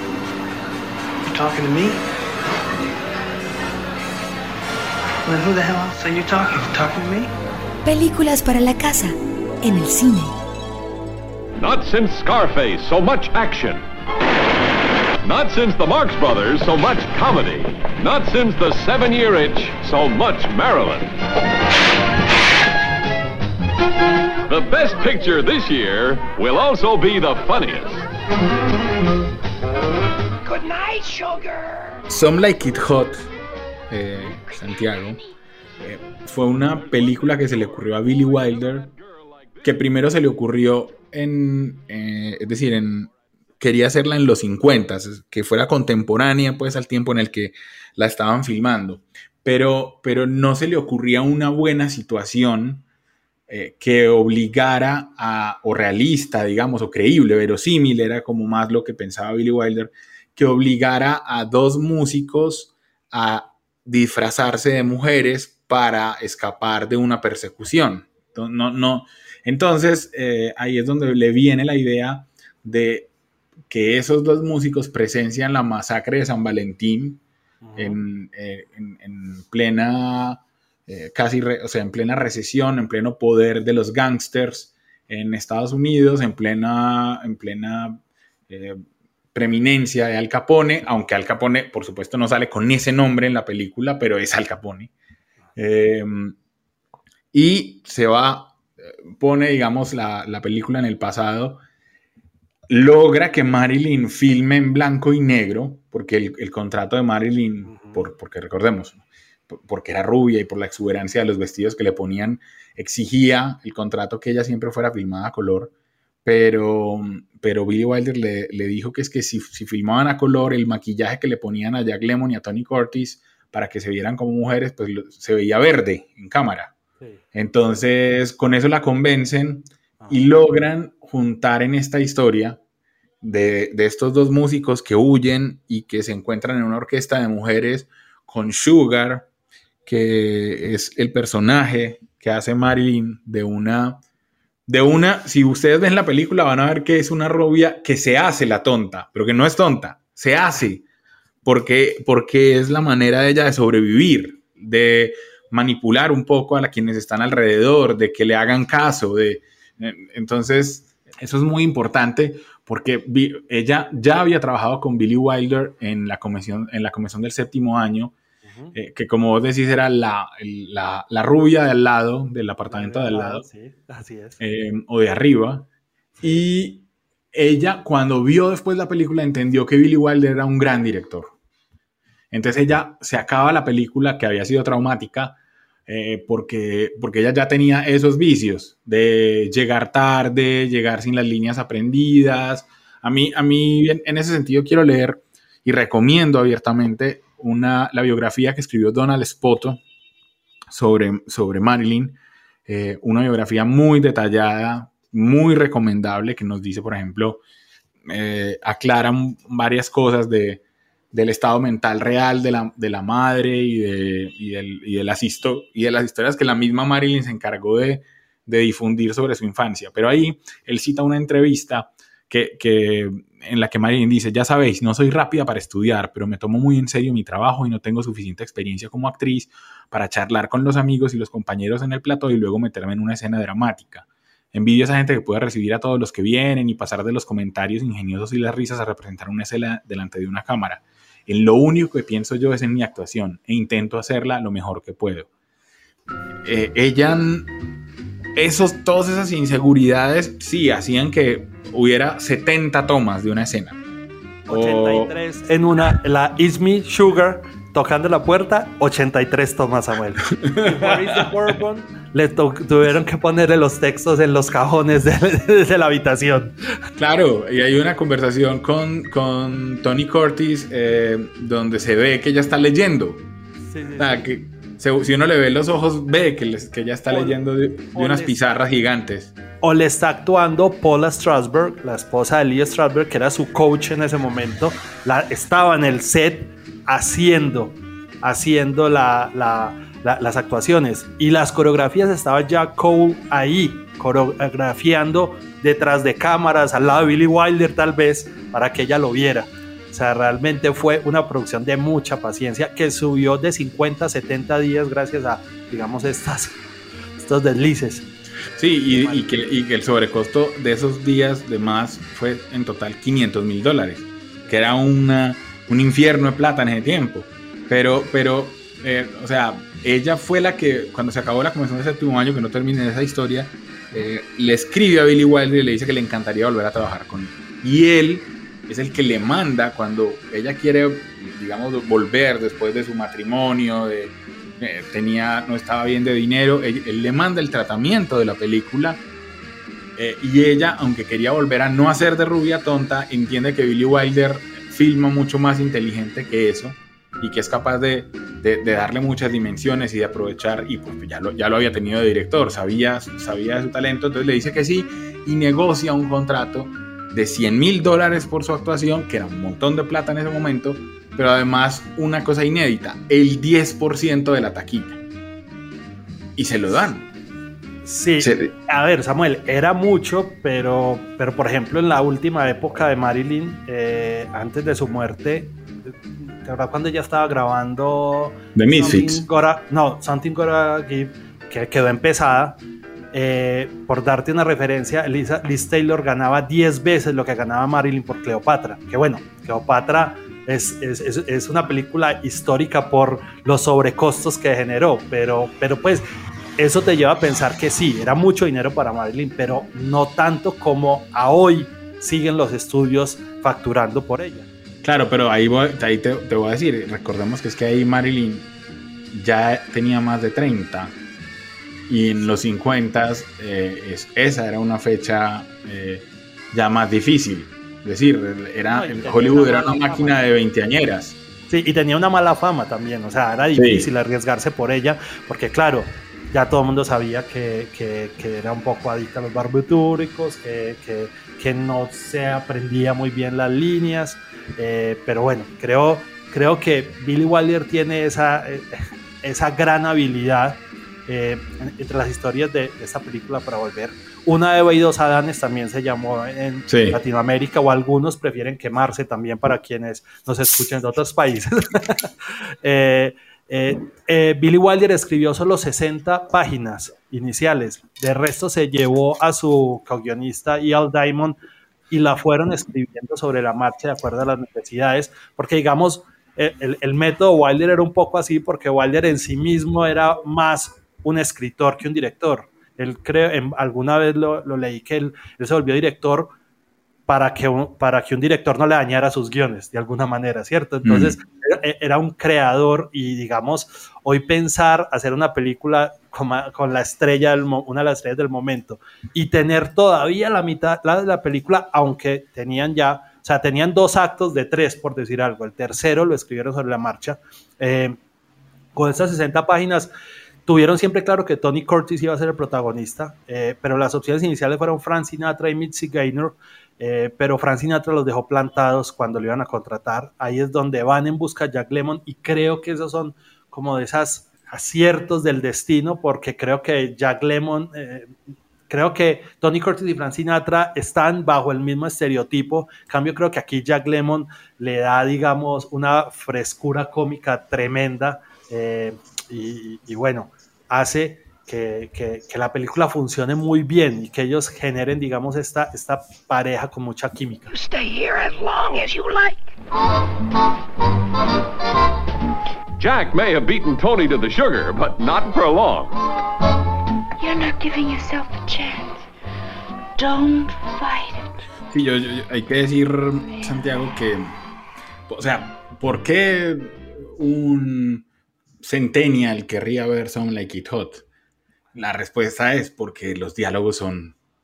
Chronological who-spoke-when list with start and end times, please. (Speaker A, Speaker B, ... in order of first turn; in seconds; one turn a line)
Speaker A: 1.2-2.0
Speaker A: 5.2-7.3
Speaker B: 7.8-10.3
Speaker C: 11.6-13.8
Speaker C: 15.2-21.1
Speaker C: 24.5-28.0
Speaker D: 32.1-33.3
Speaker D: 33.9-35.2
Speaker D: 35.8-38.9
Speaker D: 39.6-52.8
Speaker D: 53.5-73.1
Speaker D: 73.7-77.2
Speaker E: 77.6-78.0
Speaker D: 77.8-88.8
Speaker D: 89.3-94.9
Speaker D: 95.5-96.3
Speaker D: 97.3-98.6
Speaker D: 99.1-101.6
Speaker D: 102.7-115.7
Speaker E: 107.7-108.0
Speaker D: 116.2-126.7
Speaker D: 127.3-132.6
Speaker E: 130.0-130.3
Speaker D: 133.2-139.3
Speaker D: 139.8-144.0
Speaker D: 144.7-150.8
Speaker D: 151.4-168.1
Speaker E: 168.4-168.7
Speaker D: 168.7-173.4
Speaker E: 172.7-174.4
Speaker D: 174.4-175.7
Speaker D: 176.2-181.3
Speaker D: 182.3-199.8
Speaker D: 200.7-207.4
Speaker D: 208.1-245.3
Speaker D: 246.4-247.5
Speaker D: 248.3-253.8
Speaker E: 254.5-266.5
Speaker D: 254.5-255.2
Speaker D: 260.3-261.3
Speaker D: 266.9-273.2
Speaker E: 273.7-274.3
Speaker D: 274.0-279.3
Speaker E: 277.1-277.4
Speaker E: 277.9-278.6
Speaker E: 279.6-306.6
Speaker E: 307.2-309.3
Speaker D: 308.6-339.0
Speaker E: 314.4-314.7
Speaker D: 340.0-365.0
Speaker D: 366.4-367.1
Speaker E: 367.8-382.6
Speaker D: 368.2-368.5
Speaker D: 378.5-379.2
Speaker E: 383.1-396.0
Speaker E: 396.6-404.5
Speaker D: 404.8-408.5
Speaker D: 409.1-410.9
Speaker D: 411.9-421.2
Speaker E: 418.7-420.2
Speaker E: 421.5-452.1
Speaker D: 423.5-423.9
Speaker D: 446.7-447.0
Speaker E: 452.6-461.4
Speaker E: 461.9-476.3
Speaker E: 477.1-498.0
Speaker D: 480.8-481.2
Speaker E: 498.7-499.9
Speaker E: 500.4-518.1
Speaker E: 518.7-537.5
Speaker F: 537.7-539.3
Speaker C: 542.8-545.9
Speaker F: 547.2-548.9
Speaker F: 550.0-551.3
Speaker D: 551.7-554.4
Speaker D: 555.1-558.0
Speaker D: 558.6-561.0
Speaker D: 561.7-564.1